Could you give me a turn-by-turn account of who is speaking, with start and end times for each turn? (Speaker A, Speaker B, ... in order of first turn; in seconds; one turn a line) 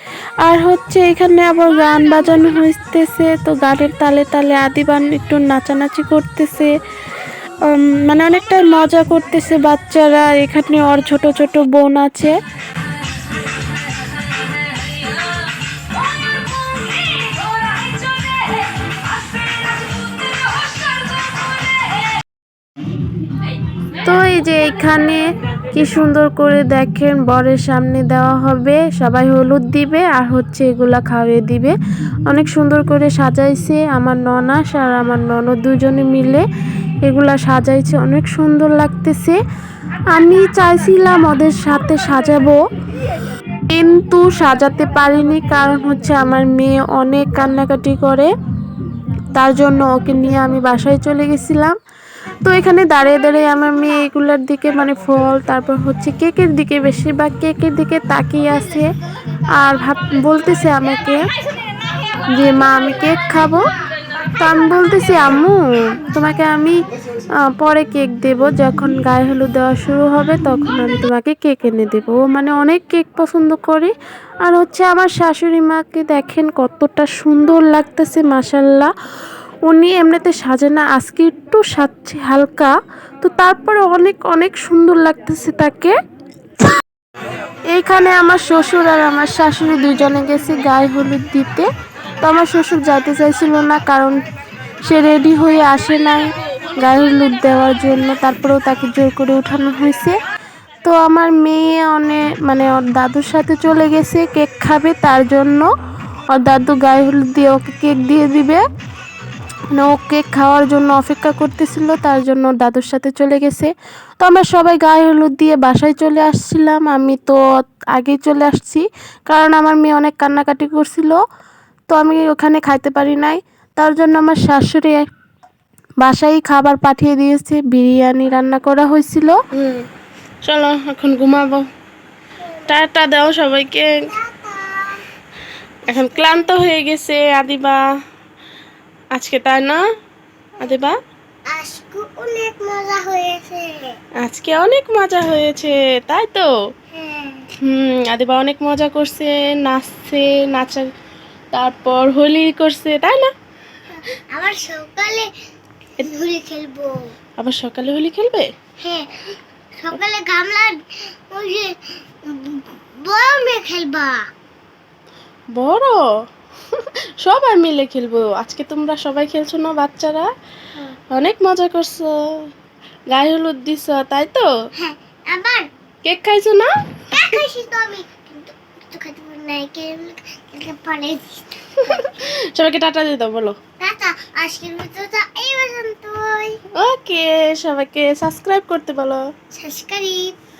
Speaker A: 0.4-6.7
Speaker A: 7.7-12.4
Speaker A: 24.1-31.7
Speaker A: 32.3-36.4
Speaker A: 37.0-39.4
Speaker A: 40.1-42.6
Speaker A: 43.7-48.3
Speaker A: 49.3-51.8
Speaker A: 52.4-58.9
Speaker A: 59.6-61.2
Speaker A: 62.3-63.7
Speaker A: 64.4-66.8
Speaker A: 67.4-73.9
Speaker A: 74.4-78.9
Speaker A: 79.7-86.0
Speaker A: 87.7-91.7
Speaker A: 92.2-94.2
Speaker A: 94.8-100.2
Speaker A: 100.8-105.7
Speaker A: 106.3-108.6
Speaker A: 109.7-117.4
Speaker A: 117.9-121.2
Speaker A: 121.9-125.1
Speaker A: 126.0-129.4
Speaker B: 129.6-129.9
Speaker B: 130.4-131.7
Speaker B: 132.7-134.1
Speaker C: 134.1-135.0
Speaker B: 135.9-137.8
Speaker C: 135.9-136.4
Speaker B: 139.1-139.8
Speaker B: 140.6-141.0
Speaker C: 141.5-143.9
Speaker B: 144.2-146.5
Speaker C: 146.9-147.5
Speaker B: 147.6-150.9
Speaker B: 151.5-153.3
Speaker C: 154.1-155.3
Speaker C: 156.0-157.1
Speaker B: 157.4-158.5
Speaker C: 158.8-164.2
Speaker B: 165.5-166.0
Speaker B: 166.8-170.3
Speaker B: 171.1-172.1
Speaker B: 173.1-174.5
Speaker C: 174.8-175.7
Speaker B: 176.0-177.4
Speaker C: 177.1-182.1
Speaker B: 181.8-183.6
Speaker C: 183.8-186.6
Speaker B: 186.8-189.2
Speaker C: 189.6-190.3